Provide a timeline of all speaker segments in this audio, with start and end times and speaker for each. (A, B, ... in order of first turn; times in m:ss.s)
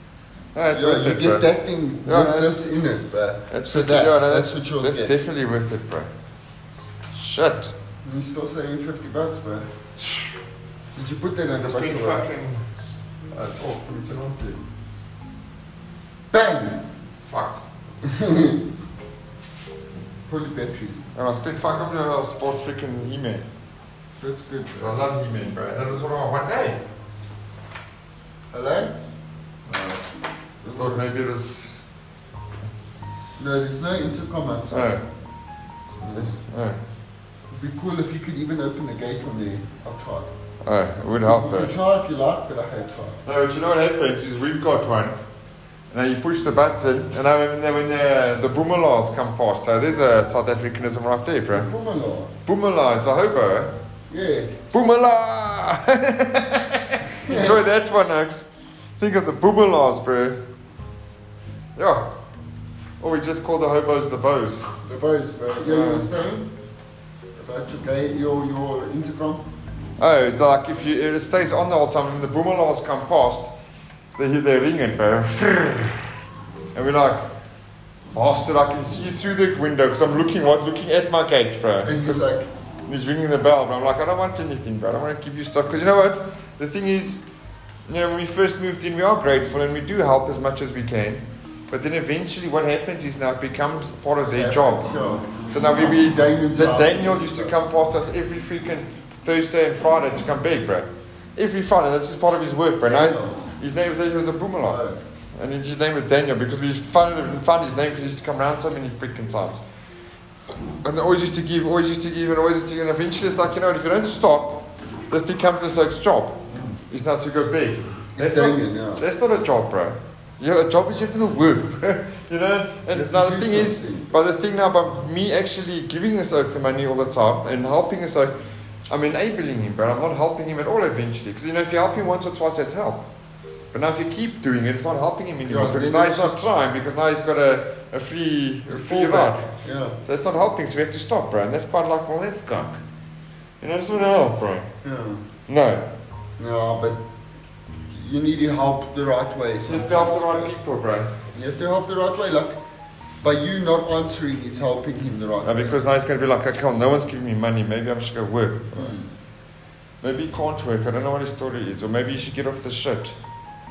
0:00.6-0:01.5 A
0:00.7-0:05.2 B
0:02.0-0:02.6 A
0:03.5-0:06.1 A
0:07.1-0:07.8 A
0:08.0-0:09.7 B
0:11.0-0:12.3 B
0:11.6-0:12.6 A
0:13.3-0:14.6 A
0:16.3-0:16.9 B
0:17.3-0:17.6 A
0:18.0-0:18.6 B
0:20.3-0:21.1 B
0:21.2-0:23.5 A
0:24.2-0:25.0 B
0:24.8-0:26.8 A
0:28.5-0:28.9 B
0:29.7-0:30.0 A
0:30.6-0:31.0 B
0:30.7-0:31.8 A
0:33.4-0:35.0 B
0:34.7-0:35.0 A
0:36.0-0:36.4 B
0:36.1-0:36.8 A
0:37.5-0:40.3 B
0:40.6-0:41.7 A
0:41.2-0:43.2 B
0:43.2-0:45.2 A
0:45.9-0:51.7 A
0:51.5-0:52.3 B
0:52.5-0:53.7 A
0:54.1-0:54.6 B
0:54.7-0:58.5 A
0:57.1-0:57.6 B
0:59.0-1:00.4 A
1:01.8-1:02.1 A
1:03.0-1:04.6 A
1:04.8-1:06.5 B
1:05.6-1:06.1 A
1:07.4-1:09.5 B
1:10.0-1:13.5 A
1:14.2-1:16.1 A
1:16.7-1:17.3 A
1:18.1-1:22.3 A
1:21.8-1:22.5 B
1:22.9-1:27.2 A
1:27.9-1:44.8 A
1:34.2-1:37.6 B
1:42.8-1:43.5 B
1:44.6-1:45.0 B
1:45.4-1:49.6 A
1:50.8-2:08.3 A
1:56.5-1:56.8 B
1:58.2-1:59.1 B
2:02.9-2:04.1 B
2:08.9-2:13.1 A
2:13.7-2:19.5 A
2:15.5-2:16.4 B
2:18.7-2:20.0 B
2:20.0-2:22.8 A
2:23.6-2:24.7 A
2:24.8-2:25.3 B
2:25.5-2:25.9 A
2:26.4-2:27.0 B
2:27.8-2:30.5 B
2:29.7-2:31.1 A
2:31.3-2:32.6 B
2:33.2-2:35.8 B
2:35.4-2:38.9 A
2:38.8-2:39.1 B
2:40.0-2:43.2 A